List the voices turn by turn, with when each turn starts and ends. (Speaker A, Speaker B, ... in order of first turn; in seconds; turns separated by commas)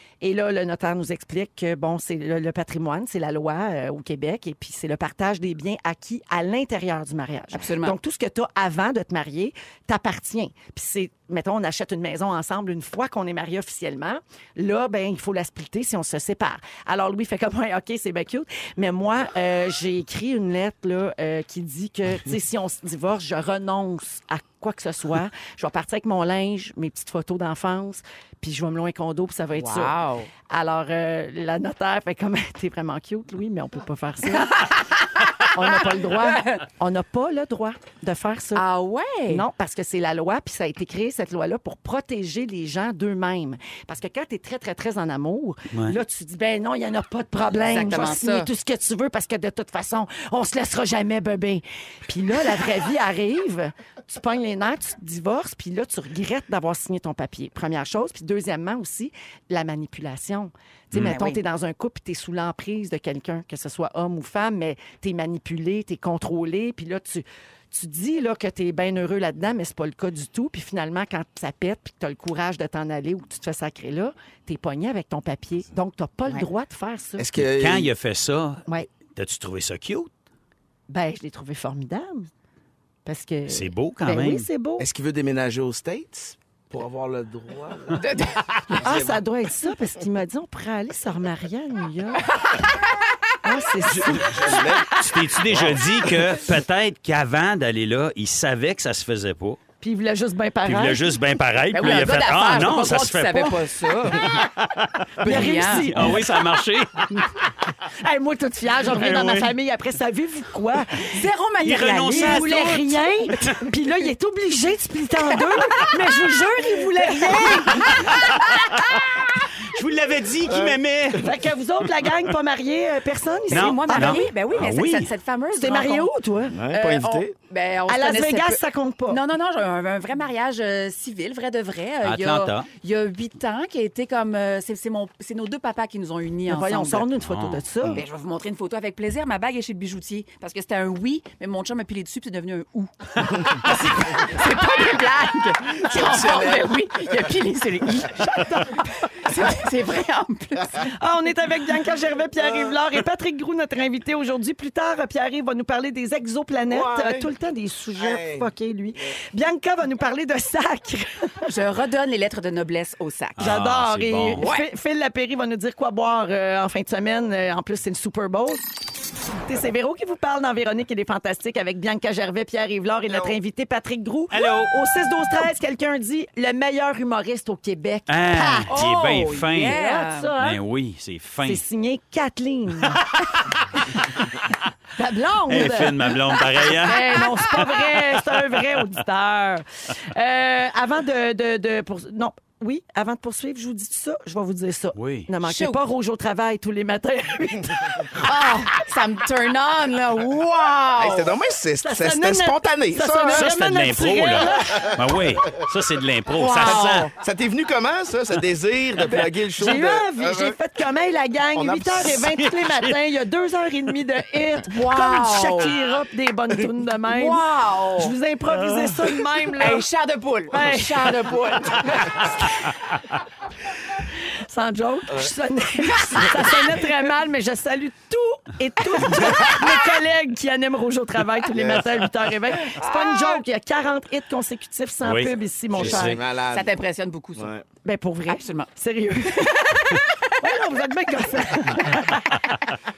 Speaker A: 0.2-30.0, Speaker B: 7.5-8.0, Speaker B: 29.6-30.3, Speaker A: 30.5-34.7, Speaker B: 34.4-36.6, Speaker A: 35.3-38.6, Speaker B: 38.5-39.5, Speaker A: 39.3-77.3, Speaker C: 45.7-46.0, Speaker B: 47.6-48.5, Speaker C: 60.9-61.2, Speaker B: 61.0-61.4, Speaker D: 77.2-77.9, Speaker C: 77.4-78.6, Speaker C: 79.2-80.1, Speaker A: 80.9-82.3, Speaker A: 83.0-84.9, Speaker C: 83.5-84.5, Speaker D: 84.8-88.0, Speaker B: 87.9-88.9, Speaker D: 88.7-89.2, Speaker A: 88.8-92.3, Speaker B: 92.4-93.3, Speaker A: 93.4-94.7, Speaker D: 93.8-96.3, Speaker C: 94.9-99.6, Speaker A: 99.8-101.1, Speaker C: 100.7-107.2, Speaker B: 101.7-104.4, Speaker B: 105.2-106.2, Speaker A: 105.2-106.3, Speaker A: 108.0-111.2, Speaker C: 108.8-109.5, Speaker B: 111.1-112.8, Speaker C: 111.7-113.6, Speaker A: 112.1-118.3, Speaker C: 117.2-121.3, Speaker D: 120.5-121.2, Speaker A: 121.2-124.2, Speaker B: 123.5-126.1, Speaker C: 123.5-125.1, Speaker A: 125.6-126.6, Speaker D: 126.5-127.3, Speaker B: 126.7-137.1, Speaker A: 127.9-129.2, Speaker C: 132.0-132.7, Speaker A: 136.5-138.0, Speaker C: 137.2-137.6, Speaker B: 137.9-150.9, Speaker D: 145.8-147.1, Speaker A: 148.2-148.9, Speaker A: 150.8-161.5, Speaker D: 152.4-152.7, Speaker D: 156.7-157.3, Speaker D: 158.0-158.5, Speaker B: 161.4-163.5, Speaker C: 163.4-164.4, Speaker A: 163.4-168.6, Speaker B: 164.4-164.7, Speaker A: 169.4-178.7, Speaker D: 173.1-173.4, Speaker C: 174.3-174.7, Speaker C: 178.1-179.8, Speaker B: 178.7-180.3, Speaker A: 179.5-180.6, Speaker C: 180.4-181.6, Speaker A: 181.4-183.2, Speaker A: 184.9-198.7, Speaker C: 185.5-188.2, Speaker C: 195.0-195.3, Speaker B: 195.4-195.8, Speaker B: 198.2-201.3, Speaker D: 201.0-203.5, Speaker A: 201.8-204.9, Speaker C: 203.3-207.1, Speaker B: 206.3-207.1, Speaker D: 206.7-210.6, Speaker A: 209.5-217.4, Speaker D: 211.6-212.5, Speaker B: 214.7-215.8, Speaker B: 217.1-218.1, Speaker A: 218.0-219.9, Speaker B: 219.6-222.3, Speaker A: 220.5-221.3, Speaker A: 221.8-222.7, Speaker A: 224.4-236.2, Speaker D: 231.5-232.0, Speaker B: 232.8-233.4, Speaker C: 235.0-236.2, Speaker D: 235.7-236.7, Speaker B: 236.5-237.5, Speaker D: 237.4-237.7, Speaker A: 237.8-242.7, Speaker B: 238.3-238.7, Speaker B: 239.4-240.3